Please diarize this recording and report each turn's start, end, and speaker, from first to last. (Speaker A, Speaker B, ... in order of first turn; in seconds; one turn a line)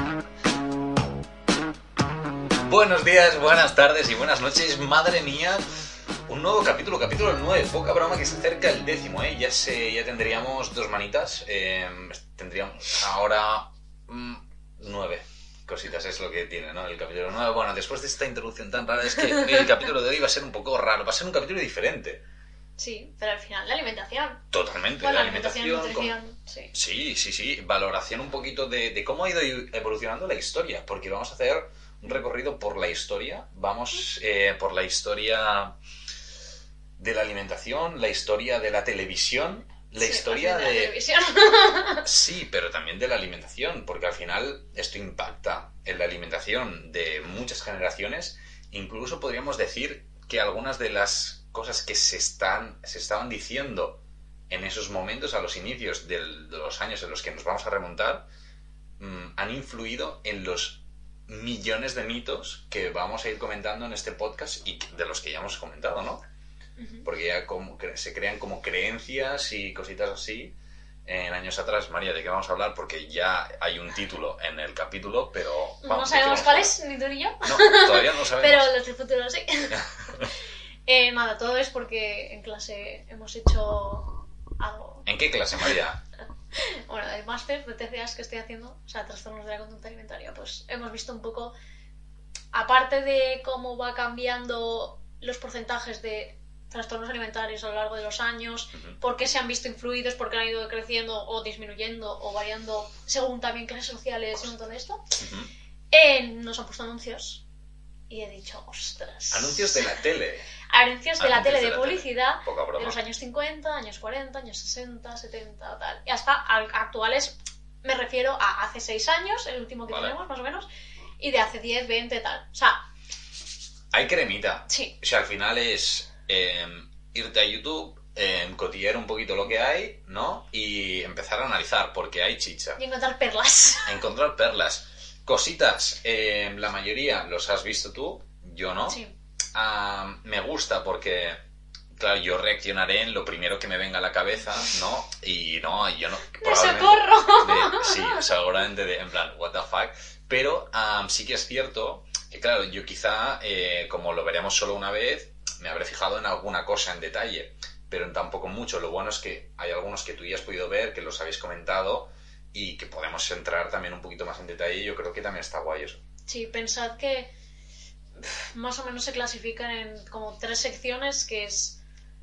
Speaker A: 2.6-5.6
Speaker A: 6.3-22.2
Speaker B: 22.8-24.4
Speaker A: 24.5-26.2
Speaker B: 25.0-26.7
Speaker A: 26.7-35.8
Speaker A: 37.0-41.0
Speaker B: 40.0-42.1
Speaker A: 42.0-58.3
Speaker A: 59.0-66.2
Speaker B: 66.8-67.1
Speaker A: 67.0-76.8
Speaker B: 75.8-80.2
Speaker A: 77.4-78.8
Speaker A: 79.8-80.2
Speaker B: 80.9-85.1
Speaker A: 85.1-86.0
Speaker B: 86.5-91.5
Speaker B: 92.5-105.0
Speaker A: 98.7-99.0
Speaker A: 105.2-105.5
Speaker B: 105.9-107.4
Speaker B: 108.1-110.0
Speaker A: 109.3-110.5
Speaker B: 110.7-120.7
Speaker A: 111.2-113.0
Speaker A: 119.9-120.2
Speaker B: 121.2-122.8
Speaker A: 123.9-132.8
Speaker B: 124.7-125.0
Speaker B: 132.8-133.9
Speaker A: 133.8-139.0
Speaker B: 138.9-139.2
Speaker A: 139.5-141.4
Speaker A: 141.9-166.0
Speaker B: 146.4-148.2
Speaker B: 166.3-167.3
Speaker B: 168.2-171.8